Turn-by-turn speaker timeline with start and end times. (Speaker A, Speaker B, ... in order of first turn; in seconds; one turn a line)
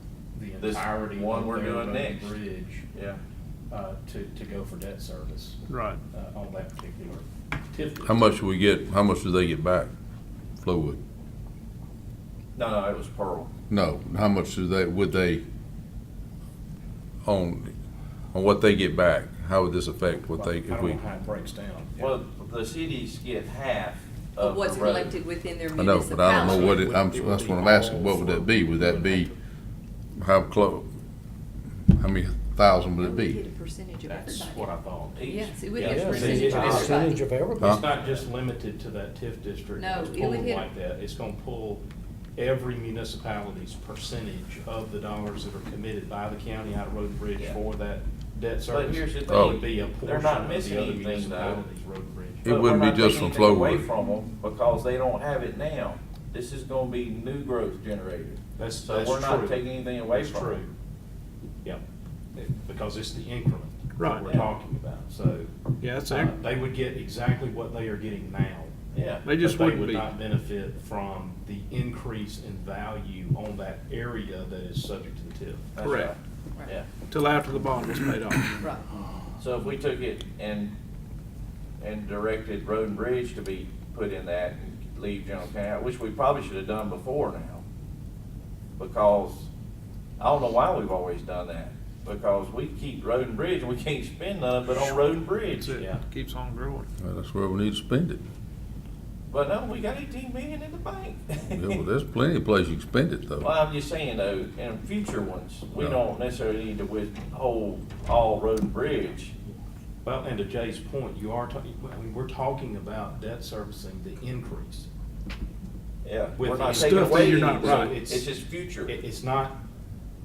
Speaker A: 0.3-2.9
Speaker B: 0.6-2.4
Speaker B: 2.9-3.2
Speaker A: 3.7-5.6
Speaker C: 5.7-6.0
Speaker A: 6.1-8.1
Speaker D: 8.1-9.9
Speaker D: 10.6-11.0
Speaker B: 12.6-13.5
Speaker D: 13.7-15.4
Speaker D: 17.2-17.8
Speaker D: 18.3-21.0
Speaker A: 20.4-22.2
Speaker B: 22.0-25.2
Speaker E: 24.4-26.9
Speaker D: 25.8-29.3
Speaker A: 26.4-29.4
Speaker D: 30.1-30.9
Speaker D: 31.9-33.4
Speaker E: 33.0-34.7
Speaker A: 34.1-37.0
Speaker B: 35.2-37.0
Speaker E: 35.2-37.3
Speaker F: 35.8-37.8
Speaker A: 37.6-41.8
Speaker E: 39.8-40.7
Speaker A: 42.4-52.5
Speaker B: 48.7-51.6
Speaker D: 49.3-49.6
Speaker B: 52.4-60.6
Speaker D: 52.5-53.9
Speaker A: 58.6-60.7
Speaker A: 62.4-65.5
Speaker C: 64.0-64.3
Speaker B: 64.2-64.5
Speaker C: 65.8-66.4
Speaker A: 66.1-68.8
Speaker B: 68.9-69.3
Speaker C: 69.2-70.1
Speaker A: 69.3-75.7
Speaker B: 75.8-76.9
Speaker C: 75.8-76.1
Speaker C: 77.1-78.6
Speaker E: 78.6-78.9
Speaker B: 79.4-80.7
Speaker B: 81.8-87.6
Speaker B: 88.8-89.5
Speaker B: 90.2-95.8
Speaker C: 95.5-96.9
Speaker A: 95.7-96.0
Speaker D: 97.0-98.2
Speaker B: 99.3-101.8
Speaker D: 101.5-103.5
Speaker B: 103.4-109.3
Speaker A: 110.0-114.9
Speaker B: 116.0-119.0
Speaker A: 116.4-118.3
Speaker C: 116.7-118.0
Speaker A: 118.9-119.6